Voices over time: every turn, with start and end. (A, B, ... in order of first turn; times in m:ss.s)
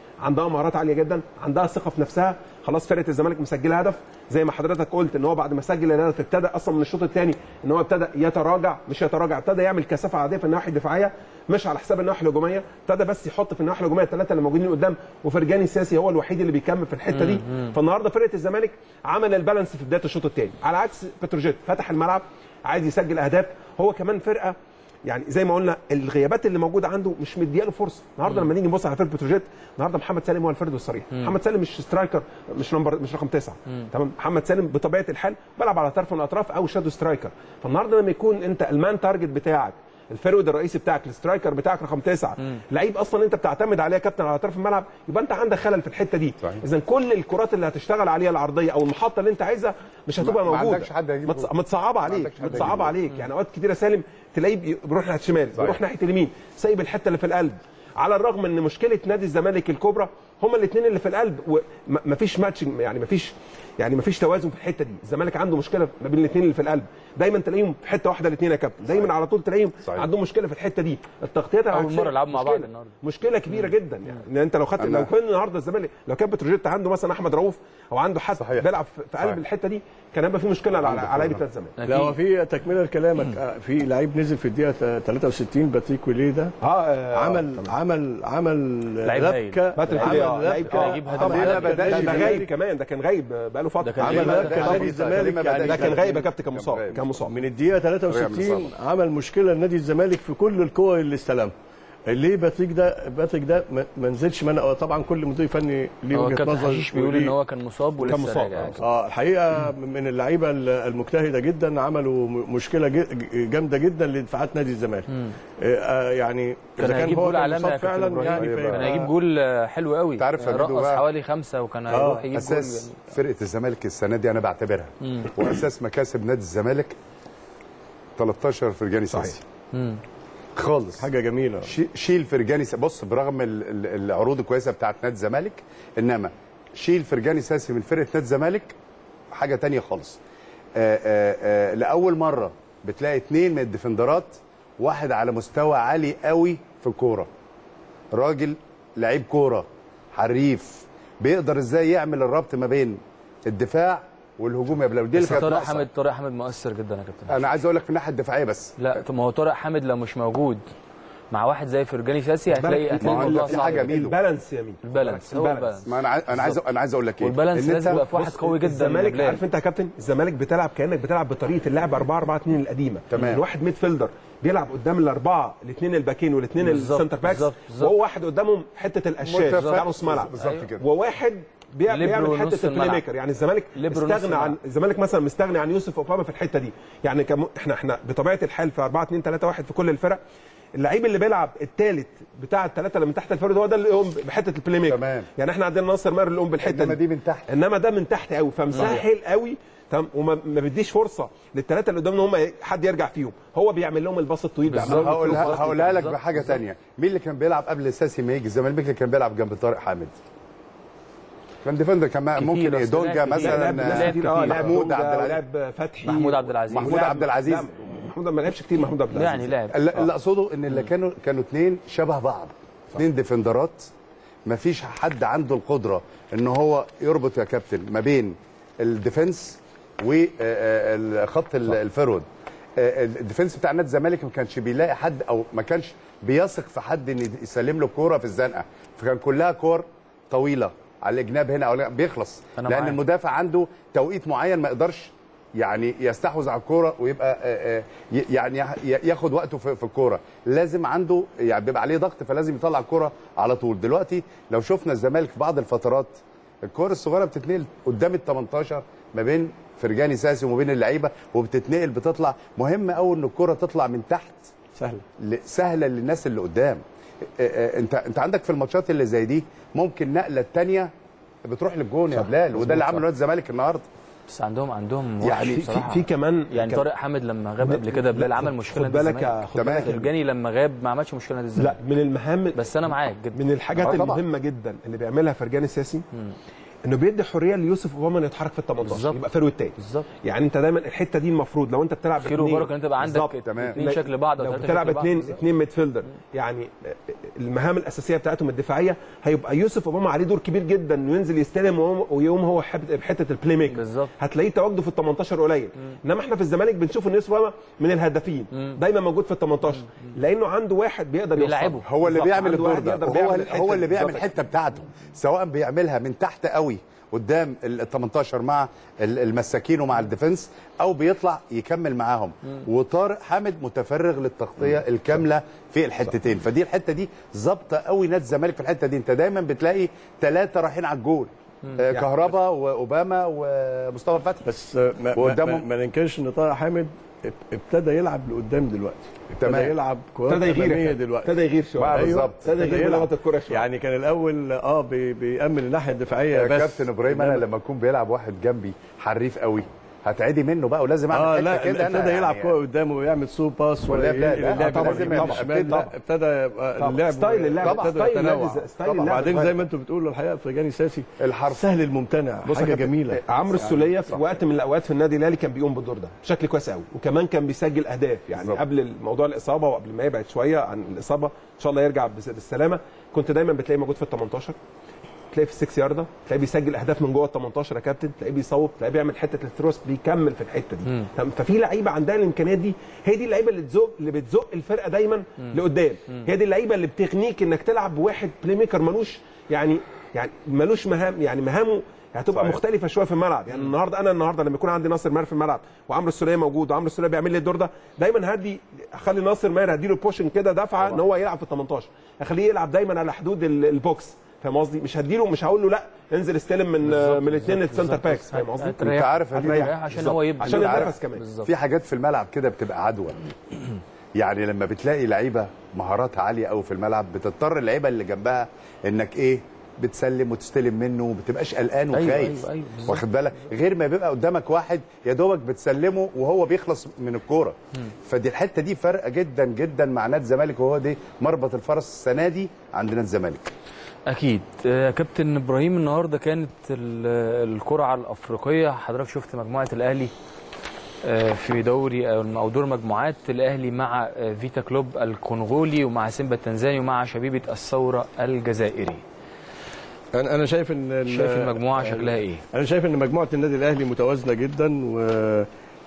0:00.2-1:21.8 A
0:17.1-0:17.7 B
0:50.2-0:51.5 C
0:52.1-0:53.0 C
1:11.7-1:12.9 B
1:14.8-1:15.1 C
1:18.4-1:18.7 C
1:20.8-1:21.4 C
1:21.8-1:22.2 B
1:21.9-1:26.5 D
1:26.6-1:27.8 A
1:27.2-1:32.5 D
1:29.0-1:32.2 B
1:29.8-1:37.4 A
1:31.2-1:32.4 C
1:33.8-1:34.7 B
1:34.0-1:36.2 D
1:34.1-1:37.2 C
1:37.3-1:41.5 D
1:38.1-1:38.7 C
1:42.1-1:47.3 D
1:46.1-1:48.8 B
1:48.0-1:48.8 A
1:48.8-1:59.1 D
1:56.8-2:03.0 B
1:58.2-1:59.1 C
2:00.2-2:01.0 C
2:01.9-2:02.3 D
2:02.3-2:07.0 C
2:08.2-2:09.4 C
2:09.7-2:10.0 B
2:10.6-2:11.1 C
2:11.0-2:11.7 D
2:11.6-2:18.8 C
2:19.3-2:20.2 C
2:20.8-2:27.3 C
2:28.1-2:35.9 C
2:35.2-2:37.5 B
2:37.3-2:38.8 C
2:38.8-2:40.6 B
2:41.3-2:44.0 B
2:42.6-2:45.8 A
2:43.0-2:44.1 C
2:44.8-2:46.6 B
2:45.8-2:48.0 C
2:47.2-2:49.4 B
2:47.9-3:10.2 A
2:53.1-2:53.4 C
2:56.6-2:57.9 B
2:59.3-3:00.7 B
2:59.3-3:00.8 C
3:01.9-3:03.0 B
3:03.8-3:04.6 B
3:10.8-3:25.9 A
3:14.9-3:15.3 C
3:16.6-3:17.5 C
3:18.8-3:19.0 C
3:24.7-3:26.6 B
3:24.8-3:30.1 C
3:31.6-3:35.4 C
3:32.4-3:34.8 B
3:33.4-3:39.5 A
3:36.1-3:37.2 B
3:36.7-3:37.7 C
3:39.1-3:39.8 B
3:39.7-3:43.9 C
3:44.5-3:52.3 C
3:52.8-4:24.5 C
4:02.6-4:03.0 B
4:24.8-4:25.0 D
4:25.2-4:30.9 C
4:31.5-4:33.8 C
4:34.3-4:41.8 B
4:35.2-4:36.9 A
4:35.3-4:35.6 C
4:37.6-4:40.0 A
4:39.6-4:39.9 C
4:41.6-4:42.6 A
4:42.6-4:44.0 B
4:43.4-4:46.0 A
4:43.8-4:44.2 C
4:46.8-5:14.4 A
4:48.8-4:49.2 B
4:49.8-4:50.1 B
4:52.2-4:55.4 B
4:53.4-4:53.8 C
5:03.7-5:04.1 B
5:11.4-5:11.8 B
5:11.9-5:34.5 C
5:34.5-5:47.4 D
5:35.2-5:35.7 C
5:39.4-5:39.8 C
5:40.3-5:43.7 A
5:41.8-5:42.5 C
5:46.3-5:52.6 C
5:51.1-6:03.2 D
5:53.9-5:55.8 C
5:54.4-5:55.9 A
5:56.8-5:59.6 A
5:57.6-5:57.9 C
5:58.9-5:59.2 C
6:01.2-6:01.6 C
6:02.5-6:02.9 C
6:03.1-6:14.6 A
6:15.3-6:51.2 A
6:46.8-6:51.5 B
6:48.8-6:49.7 C
6:50.4-6:50.9 C
6:51.5-6:53.2 C
6:54.2-7:13.5 C
7:01.9-7:03.0 B
7:14.1-7:20.1 B
7:21.0-7:29.0 B
7:30.1-7:35.5 D
7:31.1-7:32.4 B